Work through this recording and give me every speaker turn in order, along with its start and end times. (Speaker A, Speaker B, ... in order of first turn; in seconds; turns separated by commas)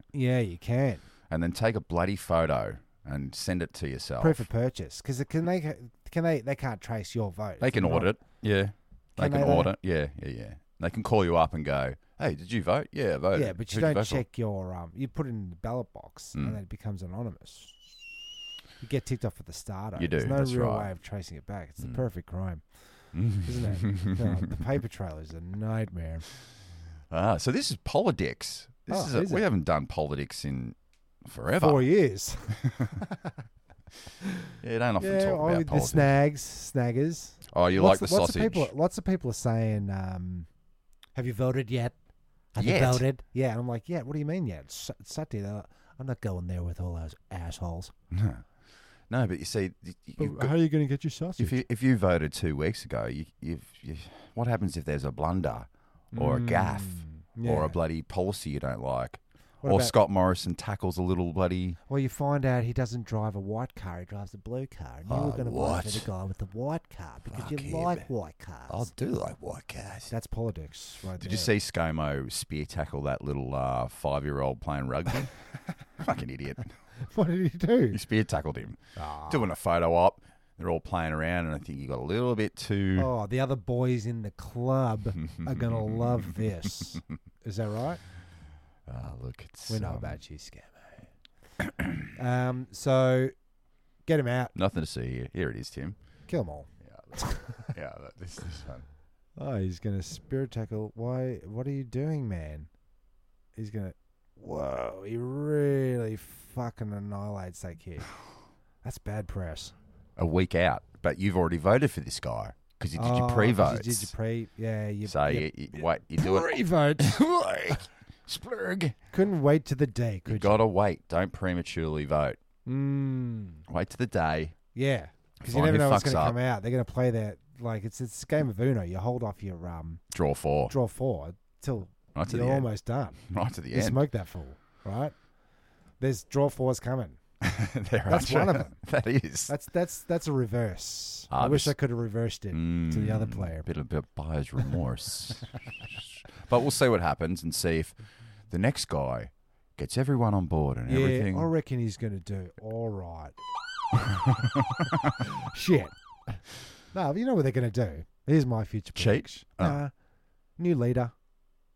Speaker A: 0.1-1.0, Speaker B: 1.3-4.5, Speaker A: 4.2-8.1, Speaker B: 7.6-14.2, Speaker A: 9.2-9.7, Speaker A: 13.3-17.7, Speaker B: 16.3-16.6, Speaker A: 18.8-26.3, Speaker B: 20.0-20.9, Speaker B: 23.1-24.4, Speaker B: 27.1-31.9, Speaker A: 28.9-29.4, Speaker A: 31.6-33.3, Speaker B: 32.6-32.9, Speaker B: 34.6-36.2, Speaker A: 35.0-40.5, Speaker B: 37.5-38.7, Speaker A: 41.1-42.0, Speaker A: 42.5-47.9, Speaker B: 42.6-43.0, Speaker B: 48.1-48.5, Speaker B: 49.1-50.5, Speaker A: 50.2-51.6, Speaker B: 51.4-61.8, Speaker A: 56.1-57.8, Speaker A: 59.6-59.9, Speaker A: 61.9-68.9, Speaker B: 65.1-66.1, Speaker B: 67.3-68.1, Speaker B: 68.7-70.1, Speaker A: 70.1-71.5, Speaker B: 71.2-75.3, Speaker B: 76.0-76.8, Speaker A: 77.0-78.0, Speaker B: 77.9-83.1, Speaker A: 79.0-79.5, Speaker A: 83.0-88.0, Speaker B: 85.2-86.8, Speaker B: 88.9-90.2, Speaker A: 89.7-91.0, Speaker B: 91.6-92.0, Speaker A: 92.1-93.3, Speaker A: 94.0-94.5, Speaker B: 94.5-96.0, Speaker A: 96.3-97.7, Speaker B: 96.8-98.8, Speaker A: 99.4-102.7, Speaker A: 103.5-108.1, Speaker A: 108.8-109.7, Speaker B: 110.2-114.1, Speaker A: 112.9-117.8, Speaker B: 115.0-119.0, Speaker A: 119.1-120.6, Speaker B: 120.2-122.4, Speaker A: 122.7-123.6, Speaker B: 123.7-124.5, Speaker A: 124.7-130.0, Speaker B: 125.4-126.4, Speaker B: 130.1-130.7, Speaker A: 130.7-133.2, Speaker B: 132.1-132.7, Speaker B: 133.3-134.0, Speaker A: 133.7-135.1, Speaker A: 136.0-137.2, Speaker B: 137.4-139.5, Speaker A: 138.1-138.8, Speaker A: 139.5-143.7, Speaker B: 141.3-141.8, Speaker B: 142.5-148.0, Speaker B: 148.5-151.5, Speaker A: 150.9-153.3, Speaker B: 154.1-154.9, Speaker A: 155.2-159.9, Speaker B: 158.9-159.8, Speaker A: 160.6-161.1